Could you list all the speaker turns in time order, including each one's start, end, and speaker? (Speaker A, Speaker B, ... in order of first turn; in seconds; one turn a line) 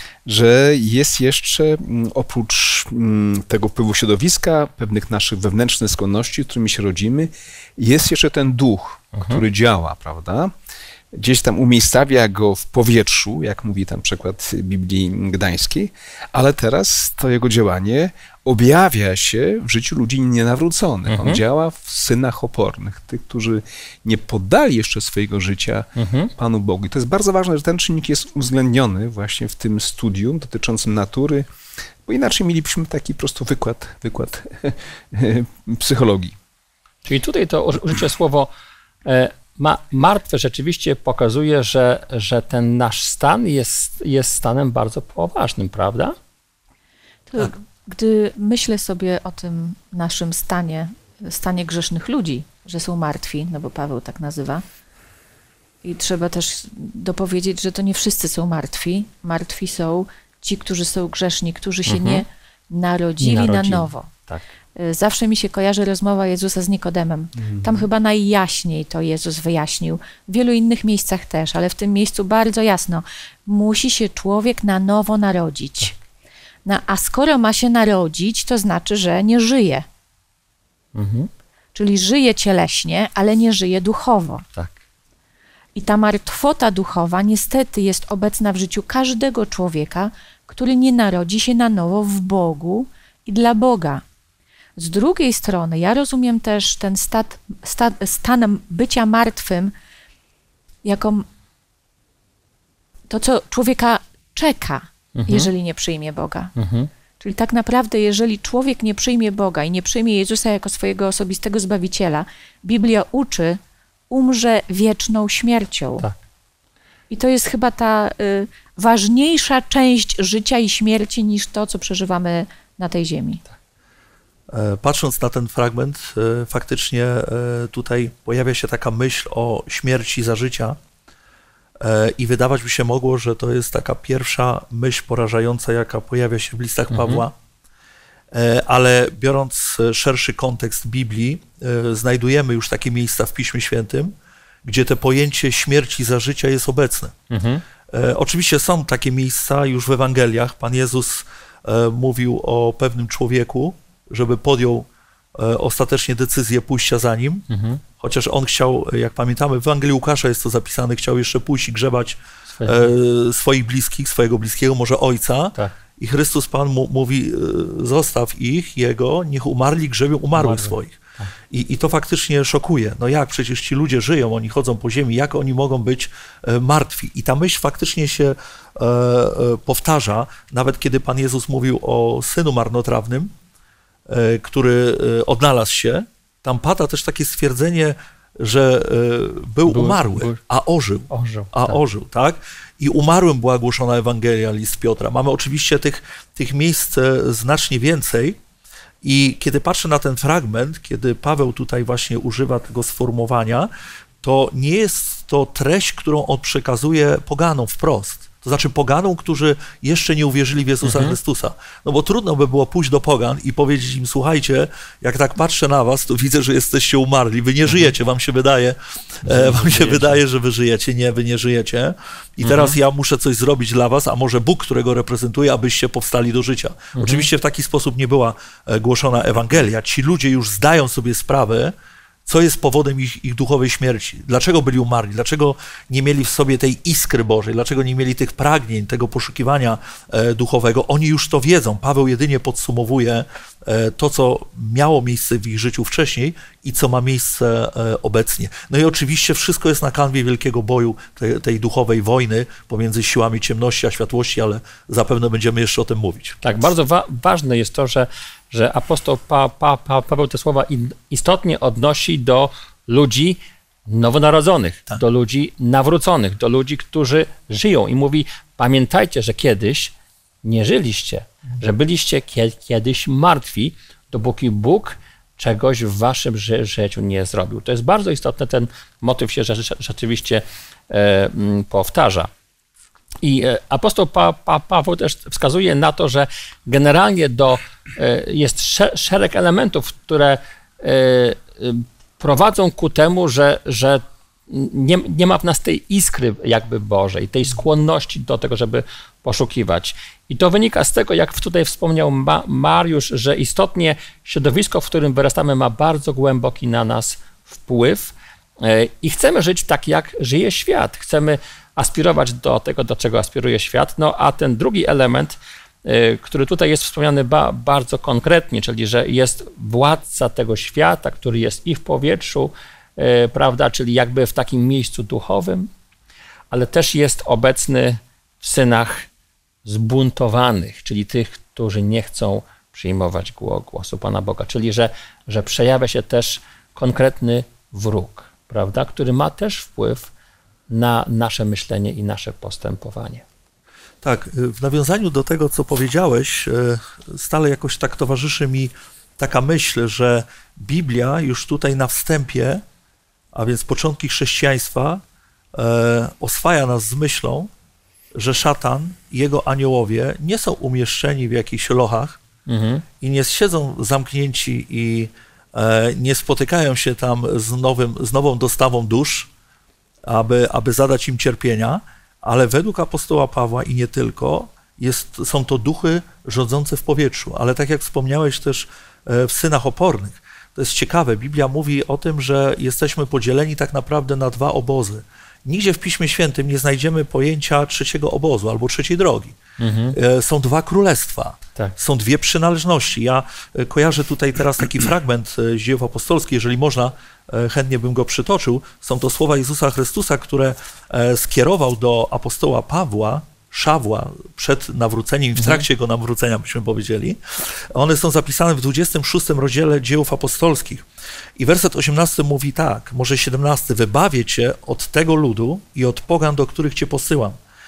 Speaker A: 0.3-10.5
Speaker B: 9.2-9.4
Speaker A: 11.1-31.5
Speaker B: 21.1-21.4
Speaker B: 26.0-26.3
Speaker A: 32.1-36.4
Speaker B: 37.0-38.5
Speaker B: 39.0-46.1
Speaker C: 47.3-54.6
Speaker C: 55.8-64.1
Speaker B: 61.9-62.2
Speaker B: 63.2-64.4
Speaker C: 64.8-76.0
Speaker A: 67.4-67.9
Speaker C: 76.7-79.8
Speaker B: 81.0-81.3
Speaker C: 81.8-84.5
Speaker C: 85.8-94.0
Speaker C: 94.8-99.7
Speaker C: 100.8-101.2
Speaker C: 103.1-106.5
Speaker B: 105.2-105.5
Speaker B: 106.6-106.9
Speaker C: 107.2-116.0
Speaker C: 117.1-123.4
Speaker D: 124.5-130.8
Speaker D: 131.8-137.3
Speaker B: 136.9-137.2
Speaker D: 138.3-144.1
Speaker D: 144.6-147.2
Speaker B: 147.3-147.6
Speaker D: 147.9-157.5
Speaker B: 157.5-157.8
Speaker D: 158.0-183.3
Speaker B: 162.5-162.9
Speaker B: 170.4-171.3
Speaker D: 184.1-198.4
Speaker B: 189.7-190.4
Speaker B: 191.1-191.8
Speaker D: 199.0-203.7
Speaker D: 204.2-231.8
Speaker B: 210.8-211.2
Speaker B: 219.3-220.2
Speaker B: 222.4-222.8
Speaker B: 227.0-227.3
Speaker D: 232.3-256.4
Speaker B: 256.4-282.3
Speaker B: 283.2-325.7
Speaker B: 326.5-329.1
Speaker B: 329.6-340.1
Speaker B: 340.7-343.2
Speaker D: 344.0-352.6
Speaker D: 353.3-355.0
Speaker D: 355.5-357.5
Speaker D: 358.1-362.2
Speaker B: 362.5-362.9
Speaker D: 363.0-369.3
Speaker D: 370.1-389.4
Speaker B: 389.6-390.0
Speaker D: 389.9-410.9
Speaker B: 405.4-405.6
Speaker D: 411.4-417.4